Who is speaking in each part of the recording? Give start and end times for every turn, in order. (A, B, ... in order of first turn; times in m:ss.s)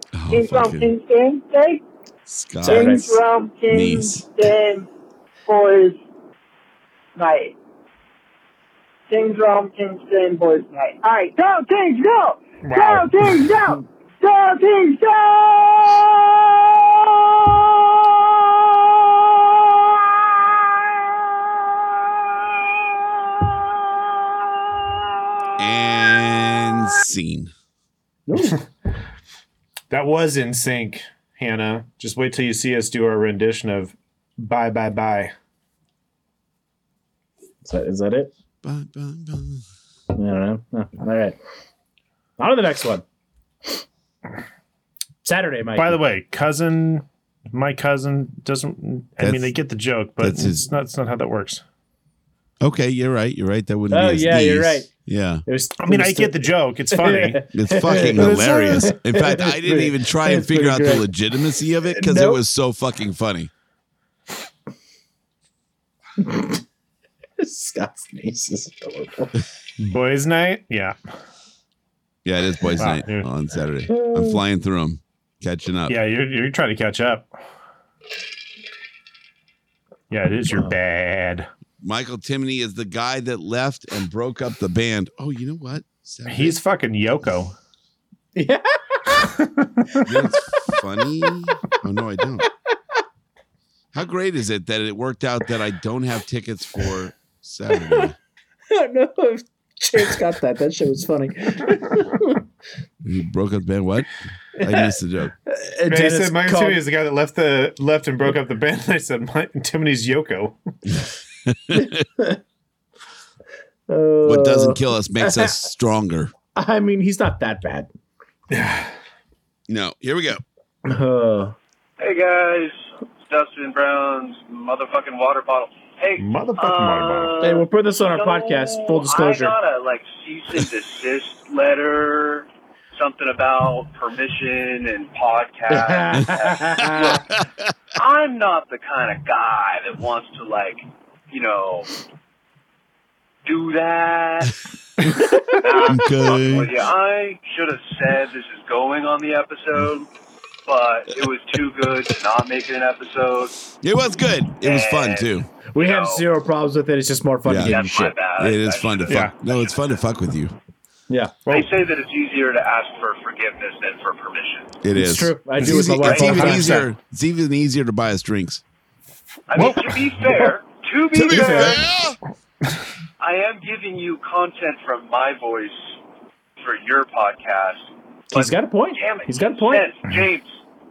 0:00.1-0:00.9 A
0:00.3-0:01.8 B
0:02.3-0:03.0 A
0:02.6-0:04.9 B
0:02.6-0:03.2 C
0:03.7-0:04.4 A
0:05.4-0:06.0 B
0:07.2-0:07.5 B
0:09.1-0:20.9 B
0:12.6-0:13.5 D
0:25.6-0:27.5 A
0:28.3-0:28.6 C
0:29.9-0:35.3 D
0:37.6-0:38.3 C
0:38.6-0:39.6 A
0:40.1-0:41.4 C
0:42.4-0:43.0 C
0:45.2-0:46.0 C
0:45.7-0:51.6 D
0:49.2-0:49.5 A
0:50.2-0:50.6 A
0:52.6-0:55.4 A
0:53.9-0:54.9 C
0:55.4-1:01.1 C
0:55.8-0:59.0 D
0:57.5-1:03.5 A
1:01.8-1:02.4 C
1:06.2-1:06.6 C
1:07.4-1:09.4 C
1:09.8-1:11.0 D
1:12.2-1:16.0 A
1:12.8-1:13.3 D
1:13.9-1:14.4 C
1:15.9-1:17.3 D
1:20.1-1:21.5 D
1:21.8-1:26.6 A
1:26.3-1:27.5 D
1:28.3-1:29.2 C
1:29.1-1:30.0 D
1:30.0-1:32.5 A
1:33.9-1:38.2 A
1:37.7-1:38.1 C
1:38.7-1:42.4 C
1:43.0-1:45.3 A
1:44.6-1:44.9 C
1:45.4-1:46.8 C
1:45.9-1:50.6 D
1:51.4-1:52.0 A
1:51.8-1:52.4 C
1:53.9-1:55.7 C
1:54.2-1:56.3 A
1:56.5-1:57.9 C
1:58.5-1:58.9 D
1:59.7-2:00.4 A
2:00.8-2:01.5 C
2:02.0-2:17.3 E
2:06.2-2:07.4 D
2:07.4-2:09.6 C
2:15.7-2:17.2 C
2:17.9-2:21.9 E
2:23.4-2:24.6 E
2:25.1-2:25.6 C
2:25.5-2:30.1 E
2:25.8-2:26.7 A
2:30.6-2:33.5 E
2:33.8-2:35.5 A
2:34.6-2:36.2 E
2:35.7-2:38.2 C
2:37.4-2:40.5 A
2:37.6-2:39.6 E
2:39.1-2:39.3 D
2:41.1-2:41.3 C
2:41.5-2:44.8 E
2:44.8-2:48.6 A
2:44.9-2:46.8 C
2:45.6-2:46.9 D
2:49.5-2:51.8 E
2:49.5-2:49.9 D
2:50.3-2:50.5 C
2:51.1-2:52.2 A
2:51.3-2:51.8 C
2:53.2-2:56.0 E
2:56.6-3:00.6 E
2:58.3-2:59.9 C